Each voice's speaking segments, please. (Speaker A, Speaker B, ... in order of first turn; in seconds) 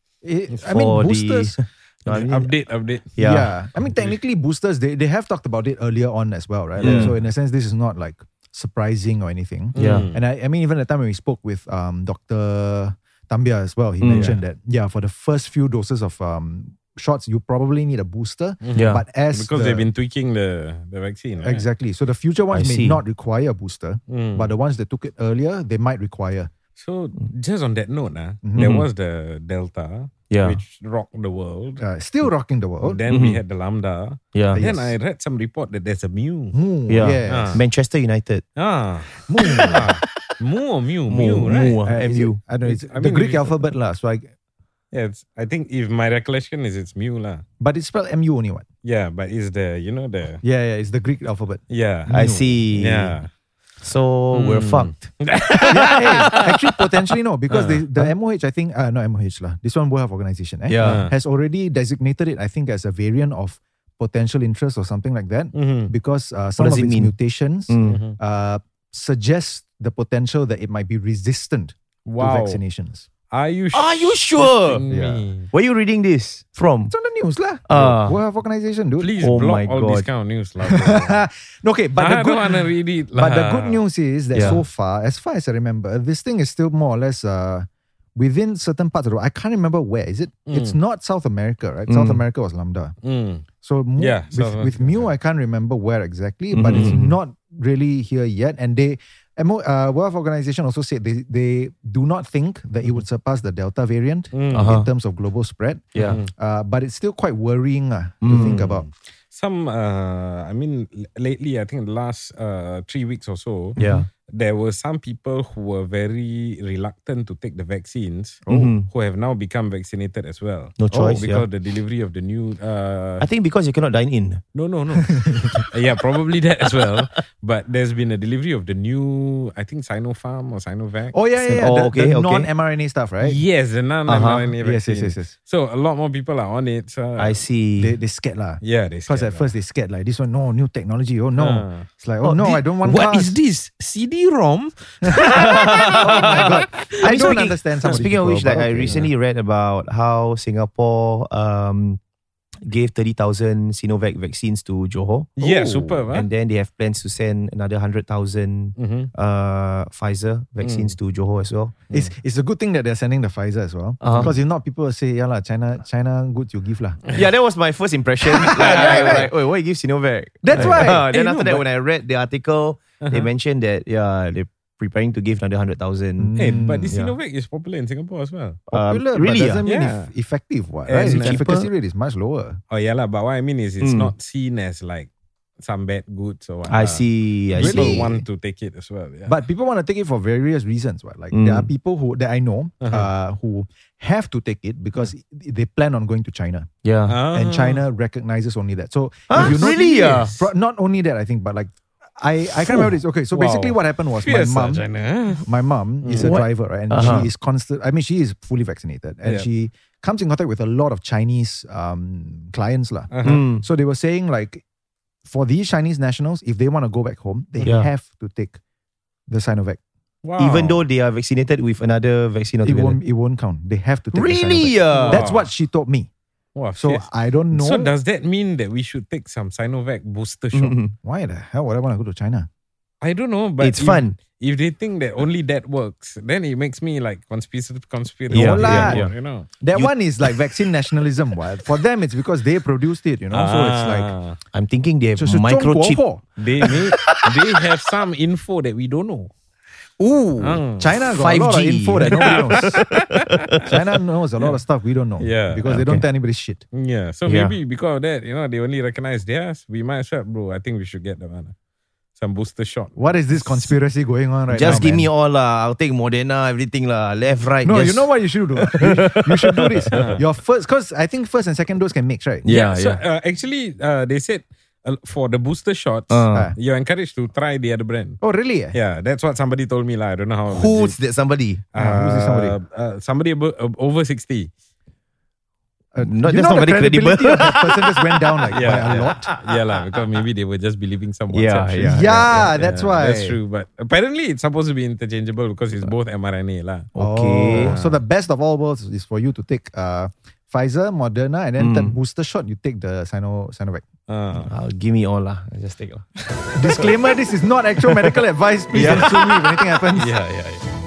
Speaker A: 0.2-1.6, 3.2-19.9, 21.4-26.5, 28.4-28.8, 31.8-33.0, 34.5-35.0, 36.5-37.6, 39.3-39.8, 41.8-44.3, 47.6-48.6, 50.4-52.6, 55.7-73.1, 74.9-75.3, 76.9-79.1, 80.6-92.9, 93.6-108.9, 125.2-125.5, 131.1-133.4, 134.6-135.3, 137.8-143.3, 145.0-149.0, 161.9-167.0, 168.5-169.3, 170.4-171.1, 176.2-176.9, 178.7-182.6, 187.6-188.2, 189.3-196.7, 197.3-204.8, 205.4-214.6, 215.2-218.6, 219.3-219.8, 222.6-226.1, 226.8-227.9, 231.0-232.5, 238.3-244.1, 245.2-246.2, 250.0-252.9, 253.6-256.6, 262.9-265.1, 267.6-272.4, 278.2-278.8, 281.7-282.6, 285.9-289.3, 291.8-293.4, 296.9-303.8, 306.5-310.2
Speaker B: 0.7-2.5, 3.1-3.5, 6.8-7.1, 9.8-10.1, 14.0-14.3, 18.7-19.0, 22.5-23.0, 28.6-28.8, 30.3-30.6, 33.1-33.4, 34.3-34.6, 36.9-38.4, 39.4-40.0, 41.1-42.4, 52.1-53.2, 53.8-56.5, 60.7-61.0, 66.6-67.1, 67.7-68.0, 73.7-74.8, 75.5-76.9, 77.7-78.2, 79.2-80.1, 84.3-84.6, 91.9-92.2, 96.5-97.1, 104.5-104.9, 105.9-106.2, 108.2-108.7, 113.8-114.1, 118.5-118.9, 120.8-121.4, 123.2-124.4, 131.4-132.5, 134.1-134.5, 137.2-138.0, 145.1-152.0, 152.6-161.8, 164.0-164.3, 167.1-177.1, 178.7-179.6, 181.0-181.7, 183.8-184.1, 186.7-188.1, 191.3-191.7, 196.8-197.2, 199.3-200.3, 202.7-202.9, 206.2-207.3, 213.2-213.6, 217.6-217.9, 220.4-223.0, 224.1-225.3, 230.5-230.9, 233.6-234.2, 238.3-239.1, 239.7-240.4, 244.5-246.0, 246.6-247.6, 251.1-253.6, 255.7-256.0, 257.2-257.6, 264.5-270.0, 272.4-273.0, 276.1-276.5, 280.5-281.6, 286.0-290.0, 291.3-292.5, 296.9-297.7, 301.6-301.9, 304.3-306.9, 308.7-309.5
Speaker C: 2.1-3.2, 3.8-4.2, 6.8-7.2, 9.7-10.2, 14.1-14.4, 18.6-21.7, 24.1-24.5, 26.8-31.8, 32.8-36.5, 37.2-37.6, 38.6-41.8, 42.6-43.7, 44.9-47.4, 48.8-50.4, 51.7-52.2, 52.7-53.3, 54.3-56.5, 57.5-57.8, 60.8-61.1, 65.5-65.9, 67.8-68.2, 72.0-72.6, 73.3-75.5, 79.0-81.2, 82.0-83.8, 90.5-90.8, 93.0-93.5, 94.0-95.1, 96.7-97.0, 104.3-104.8, 106.0-106.3, 108.4-108.7, 109.3-123.2, 124.5-131.2, 133.2-137.4, 138.6-139.5, 141.4-148.0, 155.4-156.3, 158.8-159.1, 160.6-160.9, 168.4-169.3, 170.5-171.6, 173.0-173.3, 176.4-178.6, 179.6-180.1, 180.9-181.4, 182.7-185.1, 185.6-189.4, 192.8-193.1, 197.1-197.8, 199.3-200.4, 203.3-205.5, 206.0-206.3, 213.1-213.4, 220.2-220.8, 224.9-225.5, 226.6-230.8, 233.0-239.5, 243.3-244.4, 246.4-249.3, 250.4-251.0, 252.0-253.7, 255.2-255.8, 256.7-261.5, 262.1-263.7, 269.9-270.2, 272.5-278.2, 278.7-281.0, 281.7-284.5, 288.5-296.9, 297.5-298.0, 304.1-304.5, 308.7-309.1, 309.9-310.6